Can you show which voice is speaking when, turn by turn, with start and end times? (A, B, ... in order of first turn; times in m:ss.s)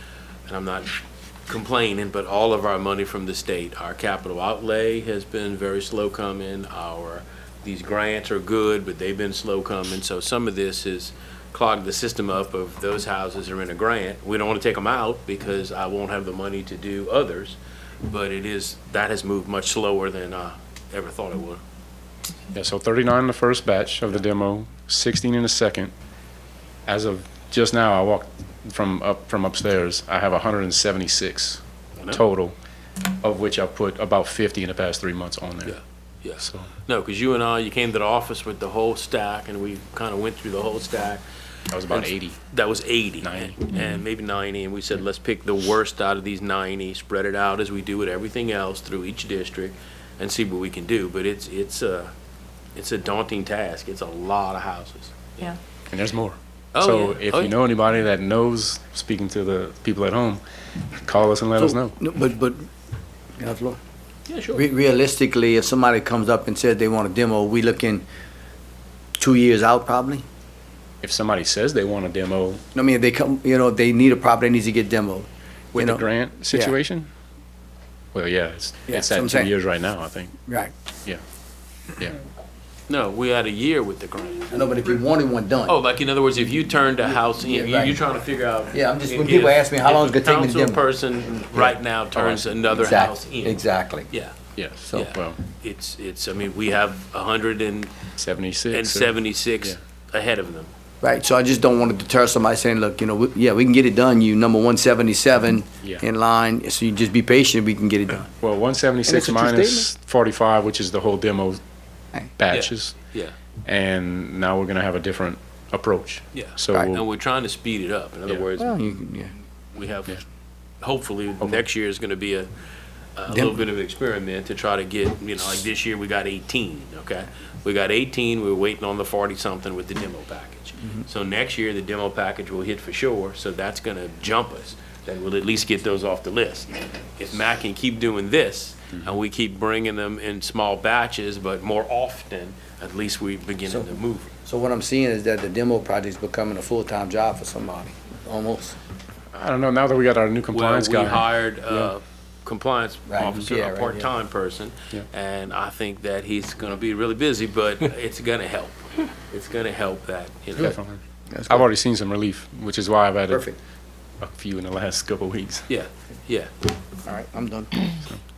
0:00.5-0:21.6 A
0:22.5-0:25.9 B
0:26.9-0:32.6 B
0:33.2-0:35.8 B
0:35.6-0:41.2 A
0:36.4-0:36.7 B
0:41.7-0:42.4 B
0:41.9-0:52.1 A
0:43.2-0:43.8 B
0:52.8-0:55.5 A
0:55.9-1:00.4 B
0:56.7-0:57.5 A
1:01.0-1:02.0 B
1:01.6-1:02.6 C
1:03.4-1:03.8 C
1:04.3-1:04.6 A
1:04.5-1:08.0 C
1:09.2-1:10.2 C
1:11.0-1:12.6 B
1:12.7-1:16.7 C
1:15.8-1:17.1 B
1:18.1-1:20.4 B
1:18.9-1:19.5 C
1:20.5-1:20.7 C
1:22.9-1:24.6 A
1:24.5-1:25.8 C
1:25.7-1:34.3 A
1:27.4-1:28.0 C
1:28.7-1:30.8 C
1:31.5-1:31.8 C
1:32.2-1:32.4 B
1:32.7-1:34.1 C
1:34.6-1:35.4 B
1:34.9-1:37.9 A
1:38.1-1:39.8 B
1:38.7-1:40.7 A
1:41.0-1:48.3 C
1:48.4-1:51.6 B
1:49.1-1:49.9 C
1:52.4-1:53.0 B
1:52.5-1:53.3 A
1:53.6-1:57.0 B
1:56.3-1:58.8 A
1:58.6-1:59.3 C
1:59.7-2:00.1 A
2:00.8-2:02.5 A
2:03.2-2:24.3 A
2:03.3-2:03.6 C
2:23.7-2:23.9 C
2:24.4-2:28.8 C
2:29.3-2:31.9 B
2:30.5-2:40.8 A
2:33.1-2:34.1 C
2:40.6-2:43.5 B
2:41.3-2:41.6 C
2:43.3-2:43.5 C
2:44.2-2:45.7 B
2:45.7-2:46.5 A
2:47.0-2:47.8 C